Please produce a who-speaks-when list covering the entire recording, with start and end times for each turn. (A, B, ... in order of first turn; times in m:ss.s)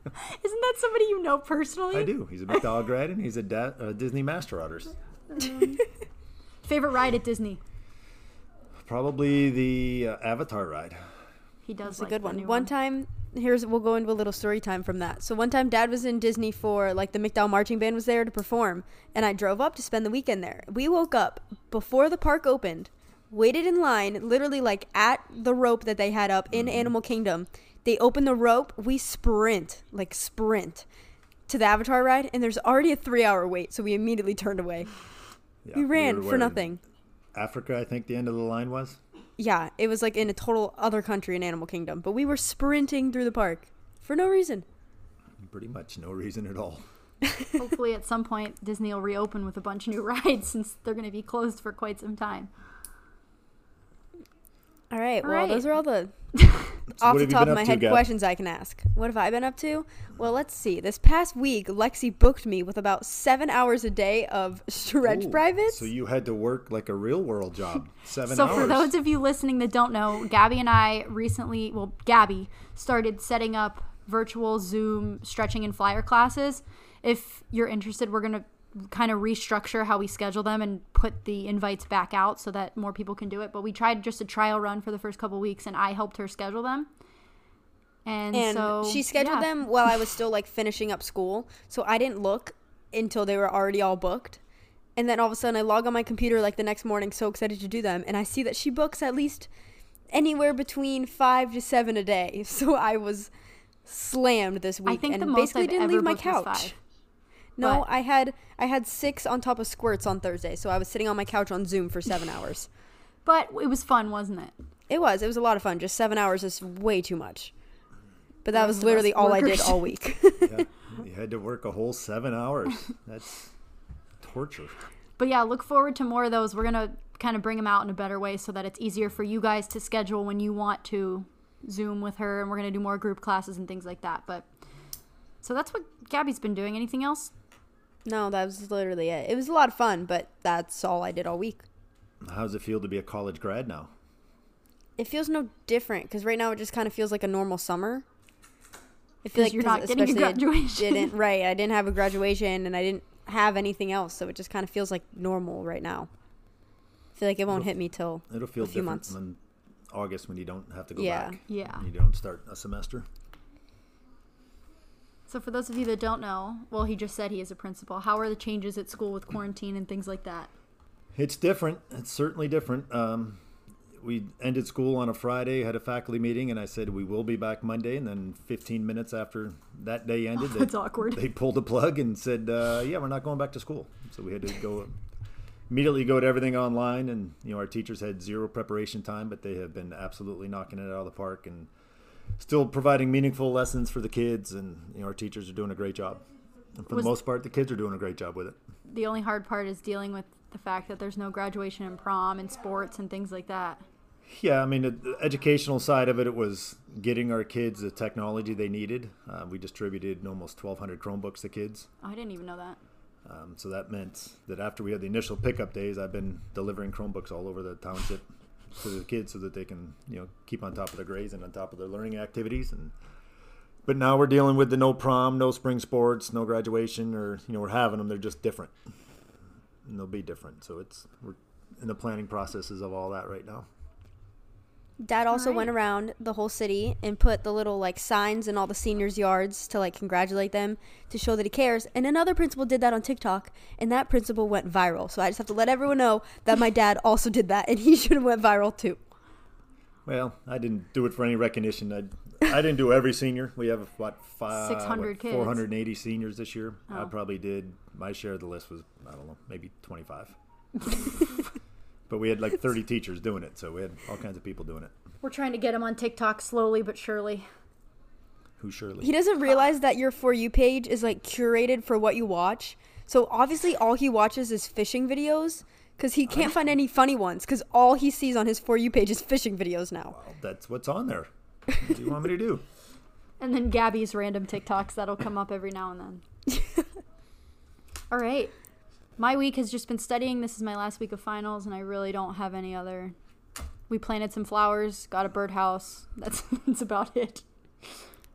0:00.3-0:02.2 A
0:01.9-0:05.0 B
0:05.3-0:05.8 A
0:06.6-0:07.6 A
0:08.8-0:11.0 B
0:11.6-0:12.7 A
0:11.9-0:30.8 C
0:26.5-0:26.9 B
0:31.5-0:34.9 C
0:35.6-0:36.7 B
0:35.7-0:36.8 C
0:37.3-0:39.0 B
0:39.4-0:44.6 C
0:45.4-0:46.8 B
0:47.6-0:52.5 A
0:54.9-0:56.1 C
0:55.2-0:55.7 A
0:56.4-0:56.7 A
0:56.9-0:58.1 B
0:57.0-1:05.8 C
1:05.0-1:08.9 B
1:08.2-1:26.9 A
1:28.0-1:29.5 A
1:28.3-1:34.4 C
1:35.0-1:39.5 C
1:40.1-1:43.3 C
1:43.8-1:46.7 C
1:44.8-1:46.7 A
1:47.6-1:52.7 C
1:47.6-1:47.8 A
1:53.2-1:54.5 A
1:54.9-1:57.5 C
1:58.4-2:00.6 C
1:58.5-1:59.9 A
2:00.4-2:03.5 B
2:04.2-2:04.7 B
2:05.2-2:14.5 A
2:15.4-2:17.3 A
2:18.0-2:21.6 C
2:22.2-2:23.9 B
2:25.0-2:28.0 C
2:29.2-2:36.1 C
2:29.3-2:31.1 A
2:37.2-2:39.1 C
2:38.3-2:39.4 B
2:39.9-2:43.0 B
2:40.9-2:41.4 C
2:41.5-2:41.8 A
2:45.3-2:50.5 A
2:51.1-2:53.4 B
2:54.0-3:05.0 B
3:00.4-3:01.2 A
3:05.7-3:11.7 B
3:12.4-3:16.2 B
3:16.8-3:18.6 B
3:18.9-3:23.8 A
3:24.2-3:31.9 B
3:32.0-3:32.8 A
3:33.2-3:38.2 B
3:38.8-3:42.9 B
3:43.8-3:48.7 B
3:49.8-3:53.7 B
3:55.0-4:09.0 C
3:55.3-3:55.7 A
4:10.0-4:20.3 B
4:14.5-4:15.6 A
4:22.1-4:24.9 B
4:25.2-4:27.5 A
4:28.6-4:29.1 B
4:29.0-4:40.2 C
4:36.3-4:36.6 B
4:40.1-4:42.6 B
4:43.4-4:46.2 A
4:48.1-4:48.5 A
4:49.2-4:53.1 A
4:53.9-4:57.4 A